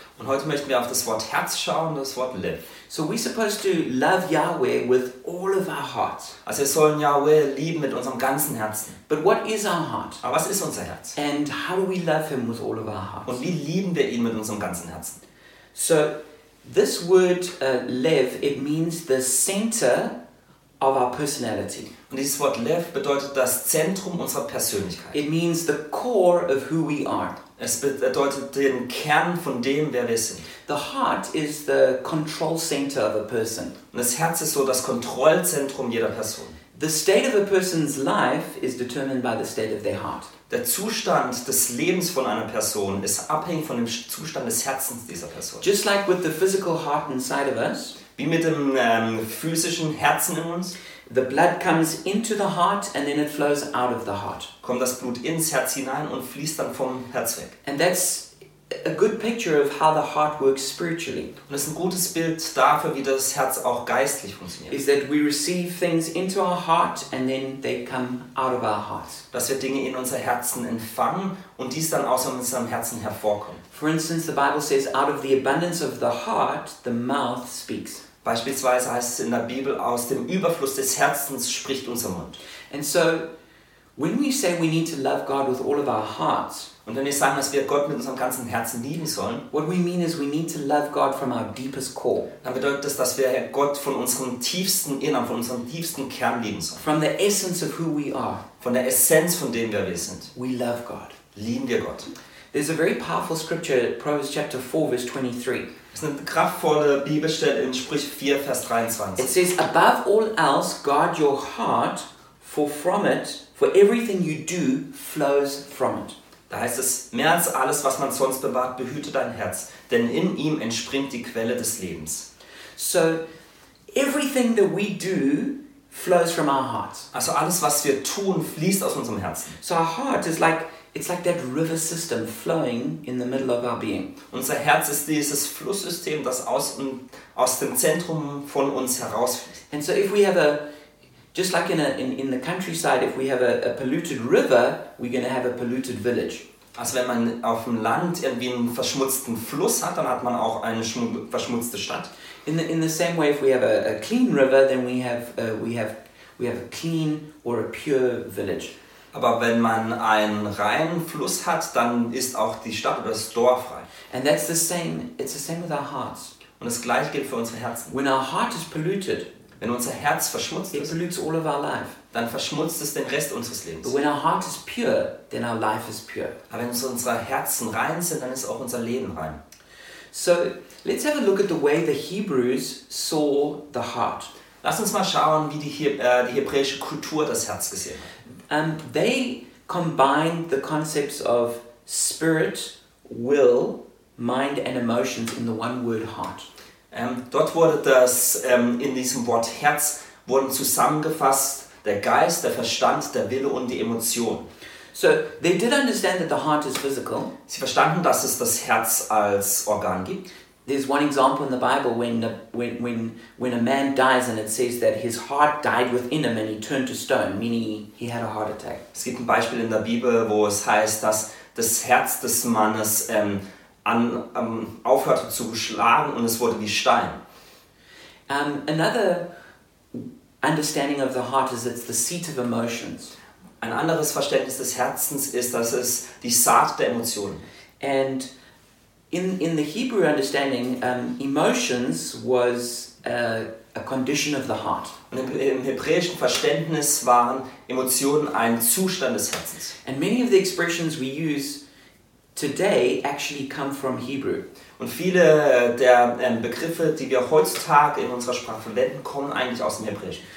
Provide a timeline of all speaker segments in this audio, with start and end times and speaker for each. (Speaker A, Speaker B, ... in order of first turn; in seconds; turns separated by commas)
Speaker A: 0.2-2.6, Speaker B: 2.9-6.4, Speaker A: 6.5-9.0, Speaker B: 9.1-10.2, Speaker A: 10.2-11.2, Speaker B: 11.2-13.4, Speaker A: 13.3-15.2, Speaker B: 15.7-20.2, Speaker B: 20.8-21.9, Speaker A: 22.1-25.2, Speaker B: 25.1-27.4, Speaker A: 27.6-30.5, Speaker B: 30.7-33.8, Speaker A: 33.9-36.6, Speaker B: 36.7-40.3, Speaker A: 40.5-45.7, Speaker B: 45.6-48.0, Speaker A: 48.2-50.8, Speaker B: 51.1-54.5, Speaker A: 54.6-57.6, Speaker B: 57.6-58.3, Speaker B: 58.8-61.3, Speaker A: 61.5-64.8, Speaker B: 64.7-69.2, Speaker A: 69.3-73.6, Speaker B: 73.7-78.0, Speaker A: 78.2-82.4, Speaker B: 82.7-83.3, Speaker B: 84.0-86.7, Speaker A: 86.9-89.4, Speaker B: 89.5-92.3, Speaker A: 92.4-96.8, Speaker B: 96.8-98.4, Speaker A: 98.6-100.3, Speaker B: 100.3-101.2, Speaker A: 101.3-102.1, Speaker B: 102.5-105.7, Speaker A: 105.9-109.3, Speaker B: 109.2-116.2, Speaker A: 116.5-122.3, Speaker B: 122.8-123.2, Speaker B: 123.9-127.1, Speaker A: 127.1-129.6, Speaker B: 129.6-134.1, Speaker A: 134.3-139.6, Speaker B: 139.7-140.6, Speaker B: 141.3-146.4, Speaker A: 146.8-152.1, Speaker B: 152.5-158.8, Speaker A: 159.1-163.9, Speaker B: 164.1-166.3, Speaker A: 166.6-167.9, Speaker B: 167.9-169.3, Speaker A: 169.6-170.9, Speaker B: 170.7-172.0, Speaker A: 172.1-174.0, Speaker B: 173.8-176.4, Speaker A: 176.5-179.4, Speaker B: 180.1-184.3, Speaker A: 184.6-188.1, Speaker B: 188.5-196.5, Speaker A: 196.9-204.5, Speaker B: 204.9-207.3, Speaker A: 207.5-210.2, Speaker B: 210.7-218.8, Speaker A: 218.9-227.2, Speaker B: 228.3-229.3, Speaker B: 229.9-233.2, Speaker A: 233.6-237.4, Speaker B: 237.8-238.3, Speaker B: 239.1-245.0, Speaker A: 245.1-249.7, Speaker B: 249.8-251.6, Speaker B: 252.4-254.5, Speaker A: 254.8-260.2